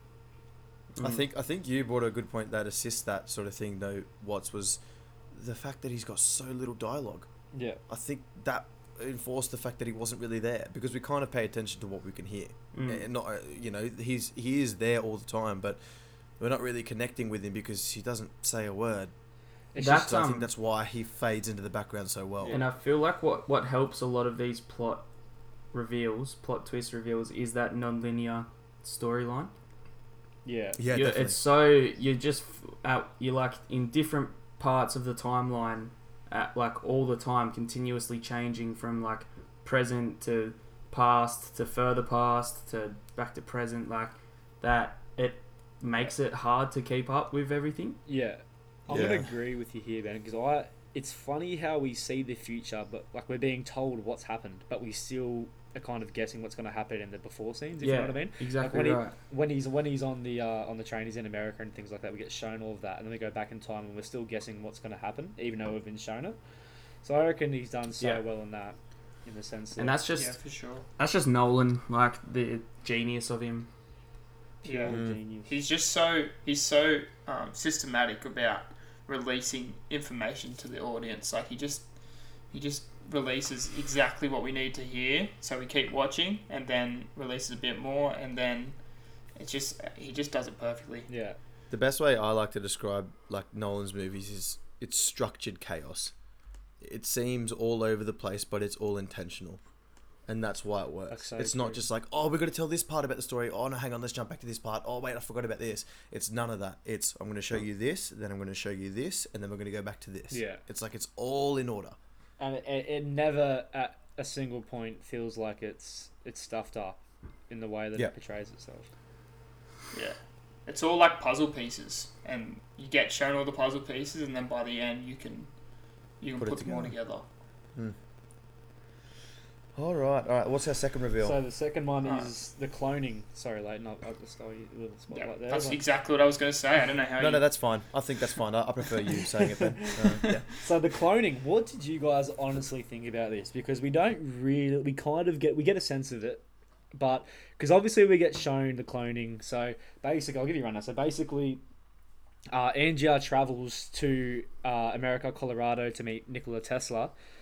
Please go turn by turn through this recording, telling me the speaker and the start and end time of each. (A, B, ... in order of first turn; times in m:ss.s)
0:01.0-0:01.2 A
0:01.0-0:04.8 B
0:05.3-0:07.3 B
0:07.5-0:07.8 C
0:07.9-0:15.8 B
0:12.7-0:13.0 A
0:16.4-0:19.1 B
0:19.7-0:20.1 C
0:19.8-0:20.5 A
0:19.9-0:22.6 B
0:22.4-0:22.7 C
0:22.5-0:25.0 A
0:25.7-0:29.5 A
0:30.4-0:30.8 C
0:30.8-0:31.4 B
0:30.9-0:48.0 A
0:48.0-1:06.4 C
0:48.9-0:49.2 B
0:57.8-0:59.1 A
1:07.0-1:10.0 C
1:09.8-1:10.4 A
1:10.2-1:10.9 D
1:11.0-1:13.7 A
1:14.6-1:15.5 C
1:14.6-1:21.9 D
1:14.9-1:15.2 B
1:22.5-1:28.8 D
1:29.4-1:31.1 D
1:31.1-1:31.4 C
1:31.7-1:36.1 B
1:36.8-1:39.6 B
1:40.3-1:52.0 B
1:41.1-1:41.8 C
1:50.3-1:50.6 C
1:52.4-1:57.0 C
1:57.5-1:58.9 C
1:59.9-2:05.5 D
2:06.2-2:07.2 D
2:06.4-2:06.9 B
2:09.8-2:11.4 B
2:11.2-2:15.8 C
2:12.0-2:12.3 D
2:15.1-2:17.4 D
2:17.2-2:20.4 B
2:19.5-2:26.4 C
2:26.9-2:31.6 C
2:32.5-2:37.1 C